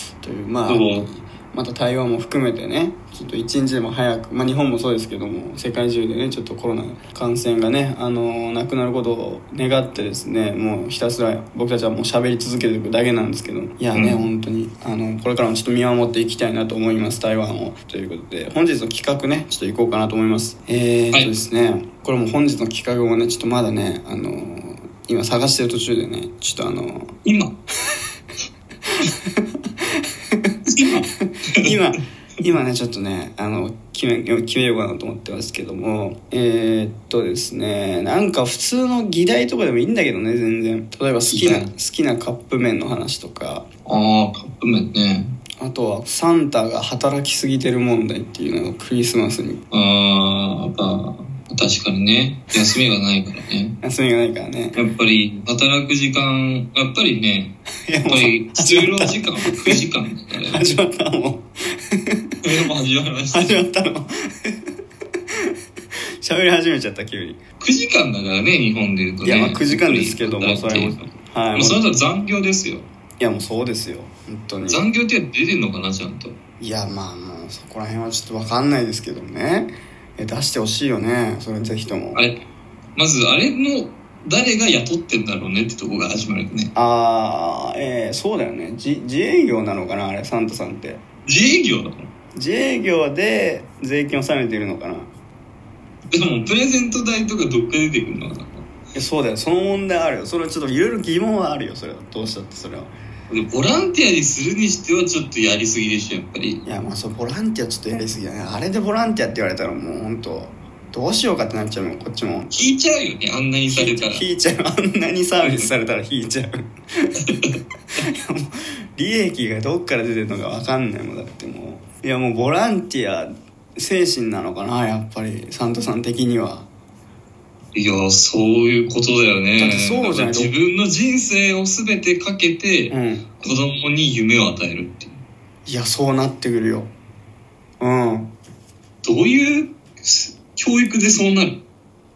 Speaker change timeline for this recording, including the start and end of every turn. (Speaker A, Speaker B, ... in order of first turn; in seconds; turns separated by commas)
Speaker A: 0.2-27.1, Speaker B: 0.7-1.1, Speaker B: 13.9-14.2, Speaker B: 27.2-27.5, Speaker B: 30.7-31.7, Speaker A: 31.6-43.6, Speaker B: 41.3-41.7, Speaker B: 43.9-45.4, Speaker A: 45.6-49.6, Speaker B: 49.7-53.8, Speaker A: 53.8-54.8, Speaker B: 54.8-60.7, Speaker A: 57.9-59.8, Speaker A: 60.4-62.2, Speaker B: 62.4-63.6, Speaker A: 63.3-64.6, Speaker A: 66.2-67.4, Speaker B: 67.6-72.9, Speaker A: 69.2-71.8, Speaker A: 73.2-74.8, Speaker B: 74.7-76.4, Speaker A: 76.6-82.3, Speaker B: 83.0-86.7, Speaker A: 86.8-91.0, Speaker B: 91.2-92.1, Speaker A: 92.3-95.1, Speaker B: 96.1-98.7, Speaker A: 98.9-102.9, Speaker B: 103.3-106.6, Speaker A: 106.7-112.6, Speaker B: 112.5-114.2, Speaker A: 113.7-117.2, Speaker B: 115.4-115.7, Speaker A: 118.0-126.7, Speaker B: 127.7-135.2, Speaker A: 129.6-130.5, Speaker A: 132.9-133.3, Speaker A: 135.7-136.9, Speaker A: 137.8-138.3, Speaker B: 139.0-141.6